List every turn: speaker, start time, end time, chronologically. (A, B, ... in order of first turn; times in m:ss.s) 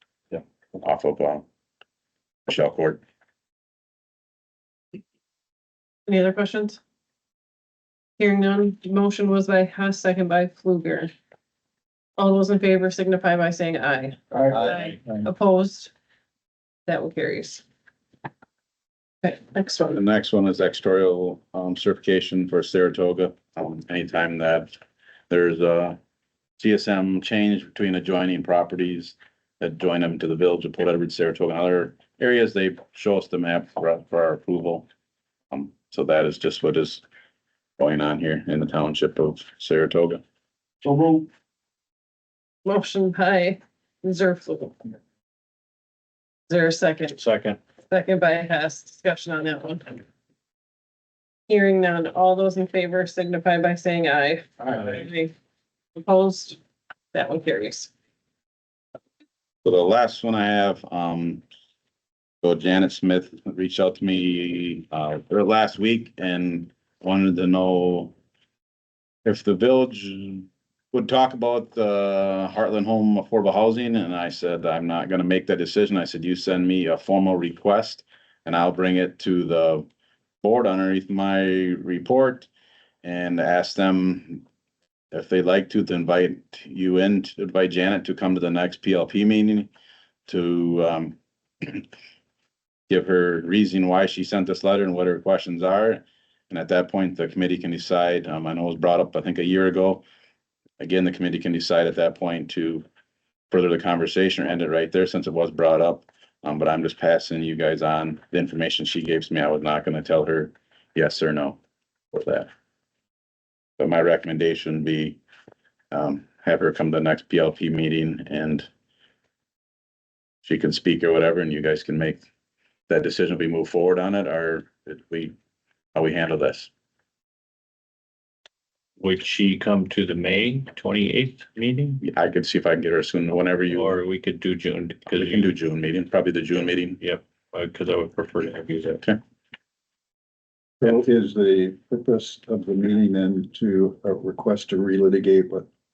0:00.8-0:01.4 A
0:02.5-0:03.0 A
0:06.1-0:06.8 B
0:08.2-0:11.1 B
0:12.2-0:15.9 B
0:16.9-0:17.6 B
0:19.2-0:20.0 B
0:19.9-0:24.7 A
0:25.3-0:26.0 A
0:26.6-0:34.9 A
0:35.5-0:37.0 A
0:37.8-0:40.2 A
0:42.6-0:44.8 B
0:46.5-0:47.2 B
0:47.2-0:47.6 C
0:47.9-0:50.0 B
0:51.5-0:55.3 B
0:56.0-0:56.6 B
0:57.1-0:57.9 B
0:59.6-1:01.4 A
1:02.4-1:08.2 A
1:09.2-1:19.9 A
1:20.4-1:22.5 A
1:23.0-1:24.4 A
1:25.1-1:29.7 A
1:30.3-1:31.8 A
1:32.9-1:40.0 A
1:40.8-1:42.8 A
1:43.5-1:51.6 A
1:52.1-1:52.5 A
1:53.8-1:55.2 A
1:55.9-1:58.7 A
2:00.4-2:02.2 A
2:02.9-2:05.3 A
2:06.0-2:06.7 A
2:09.0-2:12.0 C
2:12.0-2:14.0 A
2:13.7-2:15.6 C
2:15.1-2:17.0 A
2:16.6-2:19.0 C
2:20.8-2:25.7 D